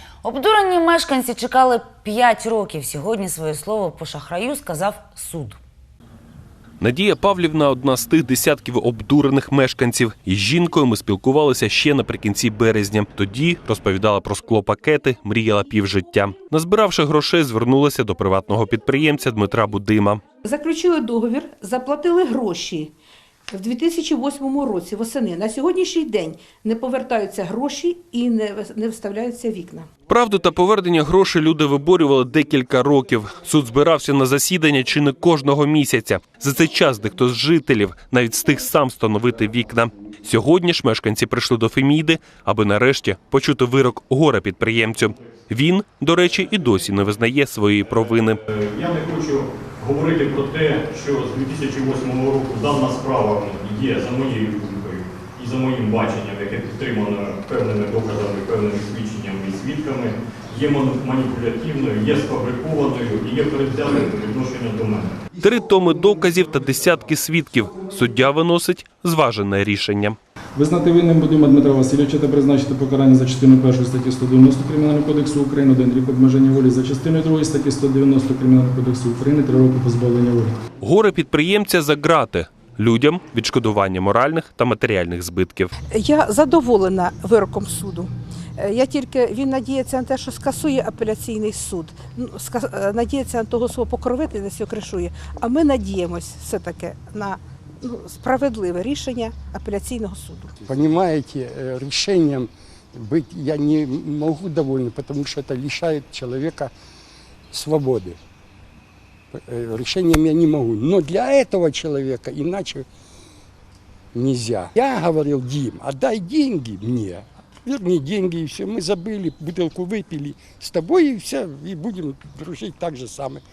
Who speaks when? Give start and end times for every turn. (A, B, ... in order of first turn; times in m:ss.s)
0:00.2-0:05.6 A
0:06.8-0:20.2 B
0:20.4-0:22.9 C
0:23.5-0:29.9 C
0:30.1-0:48.4 B
0:48.5-1:05.2 D
1:05.4-1:10.2 B
1:10.6-1:20.6 E
1:20.8-1:25.7 B
1:25.9-1:40.5 C
1:40.6-1:46.7 F
1:47.5-1:48.2 F
1:49.3-1:52.8 F
1:54.1-2:03.4 F